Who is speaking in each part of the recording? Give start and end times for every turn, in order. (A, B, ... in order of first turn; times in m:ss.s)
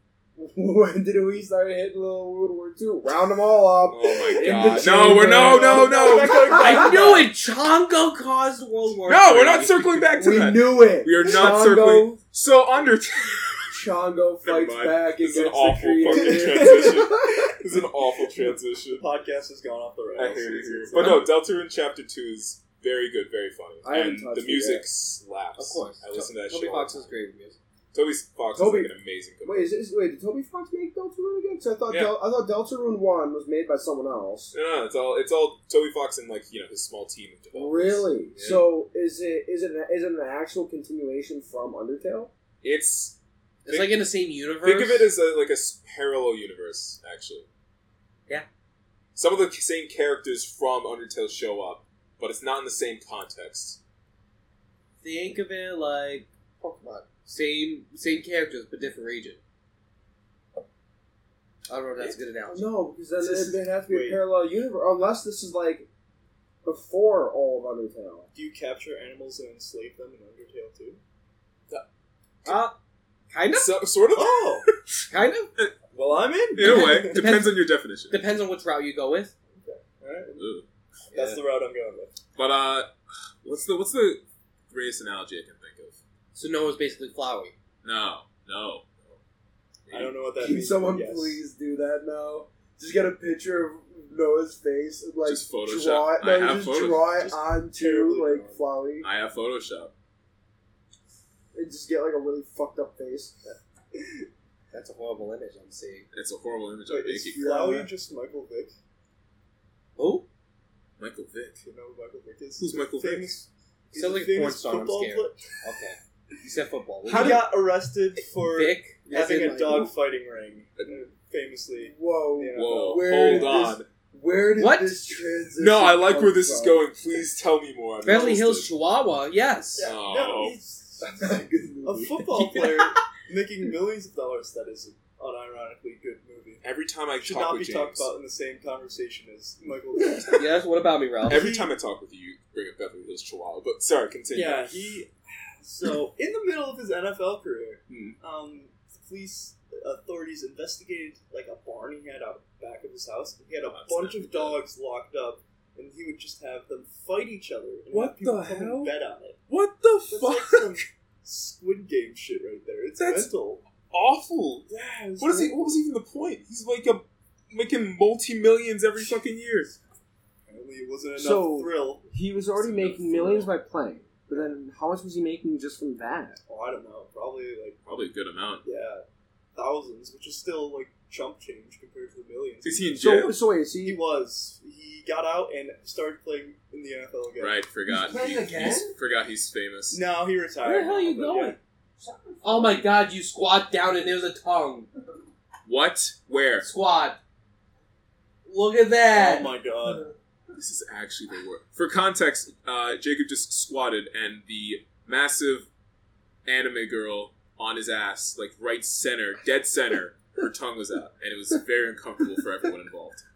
0:00.4-0:07.0 A
0:03.9-0:06.6 B
0:05.1-0:07.3 C
0:06.5-0:09.9 D
0:09.0-0:13.8 B
0:10.1-0:12.2 A
0:13.7-0:17.5 A
0:14.4-0:19.0 B
0:16.0-0:17.3 C
0:18.9-0:21.3 C
0:20.2-0:27.1 B
0:23.8-0:24.8 A
0:25.6-0:27.6 D
0:27.9-0:29.7 B
0:28.5-0:28.9 A
0:29.4-0:34.5 A
0:31.9-0:32.2 B
0:34.5-0:38.6 B
0:37.5-0:42.3 A
0:42.6-0:43.2 B
0:43.6-0:45.1 D
0:43.7-0:44.0 B
0:44.6-0:47.5 B
0:49.1-0:53.8 B
0:55.0-0:59.4 D
1:01.7-1:02.7 D
1:02.5-1:05.9 A
1:03.3-1:04.2 C
1:06.6-1:08.3 A
1:08.3-1:11.0 C
1:12.4-1:12.7 D
1:13.3-1:13.7 D
1:13.5-1:15.7 B
1:14.1-1:14.7 C
1:15.1-1:15.5 D
1:15.9-1:17.3 C
1:16.5-1:18.2 B
1:16.6-1:17.6 D
1:18.1-1:19.3 D
1:19.5-1:20.4 C
1:20.4-1:20.6 B
1:21.1-1:21.4 D
1:21.1-1:22.2 C
1:22.4-1:26.0 B
1:26.3-1:27.5 D
1:27.8-1:29.2 B
1:29.9-1:30.1 B
1:29.9-1:31.4 C
1:30.4-1:39.1 A
1:35.2-1:37.3 B
1:37.2-1:38.6 C
1:39.0-1:39.9 B
1:41.5-1:43.6 A
1:44.7-1:46.1 D
1:46.1-1:47.4 B
1:46.9-1:48.7 C
1:47.3-1:47.9 A
1:50.0-1:50.2 D
1:51.0-1:51.6 B
1:51.6-1:55.5 C
1:52.6-1:53.4 B
1:53.9-1:57.5 D
1:57.0-1:57.4 B
1:57.0-2:03.6 C
1:58.4-1:59.9 D
2:01.8-2:06.9 A
2:02.5-2:03.9 B
2:04.6-2:05.0 D
2:05.6-2:08.7 B
2:08.0-2:09.9 D
2:09.8-2:16.6 C
2:09.8-2:10.6 B
2:11.0-2:12.4 A
2:16.6-2:18.1 B
2:17.2-2:20.5 C
2:20.3-2:21.4 D
2:21.2-2:21.7 C
2:21.2-2:24.8 B
2:24.3-2:39.4 C
2:27.9-2:28.2 B
2:33.7-2:34.6 B
2:37.9-2:38.9 B
2:39.5-2:40.8 B
2:40.1-2:43.6 C
2:43.0-2:43.3 B
2:43.8-2:44.7 B
2:44.7-2:45.8 C
2:45.2-2:49.7 B
2:50.5-2:52.0 C
2:51.2-2:56.4 A
2:52.6-2:53.4 C
2:52.8-2:53.4 B
2:56.5-2:57.8 C
2:57.8-2:58.6 B
2:58.6-2:59.0 C
2:59.5-3:03.0 C
3:02.6-3:03.4 B
3:03.0-3:04.0 A
3:03.8-3:07.6 C
3:07.4-3:10.0 B
3:07.9-3:08.9 A
3:09.9-3:11.6 C
3:10.6-3:11.6 D
3:12.0-3:12.8 A
3:12.4-3:14.9 D
3:15.6-3:16.7 B
3:16.6-3:17.2 D
3:18.4-3:19.5 D
3:19.1-3:20.1 C
3:20.6-3:25.7 B
3:26.4-3:33.2 B